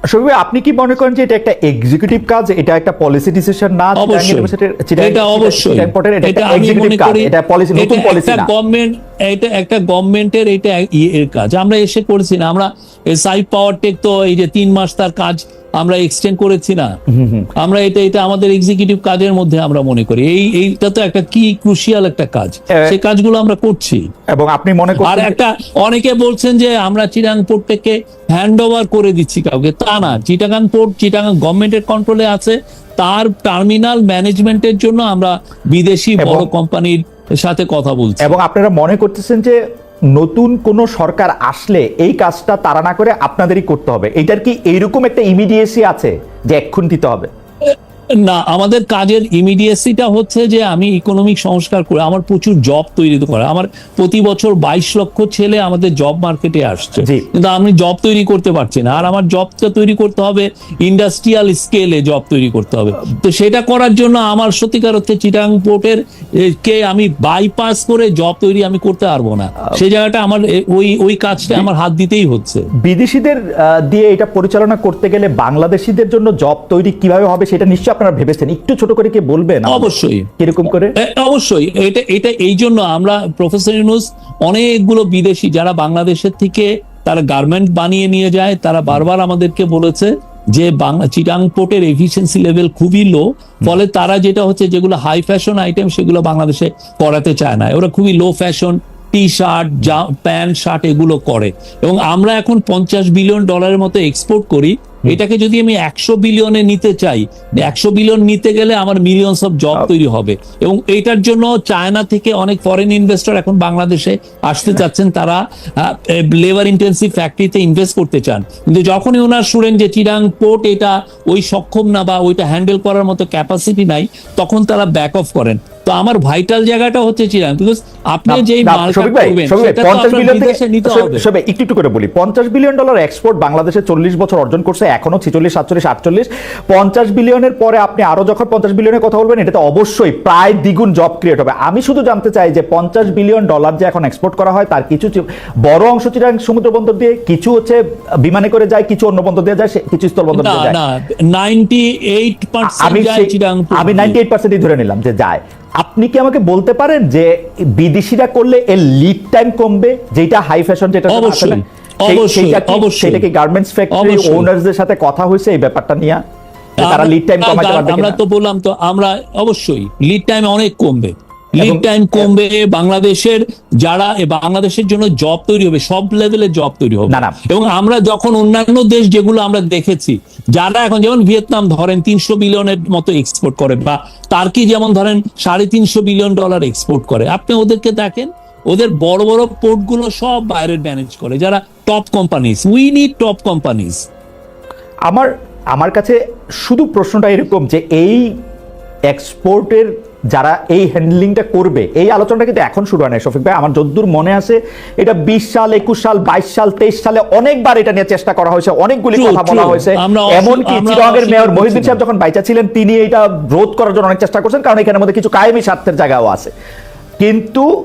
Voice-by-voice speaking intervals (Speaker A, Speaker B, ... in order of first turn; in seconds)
Speaker A: 0.1-8.5, 17.1-17.5, 24.3-25.4, 36.2-36.5, 38.2-39.6, 40.1-47.3, 57.0-57.3, 71.4-71.7, 72.8-81.0, 128.3-150.8, 152.6-166.2, 166.8-168.2, 171.6-172.3, 177.1-177.4, 195.1-198.3, 199.1-216.5, 217.2-217.7
Speaker B: 4.0-16.9, 17.6-24.0, 25.0-38.4, 48.2-72.7, 79.7-80.3, 81.0-131.3, 150.3-154.2, 161.1-163.2, 163.9-164.5, 166.8-194.1, 209.2-212.0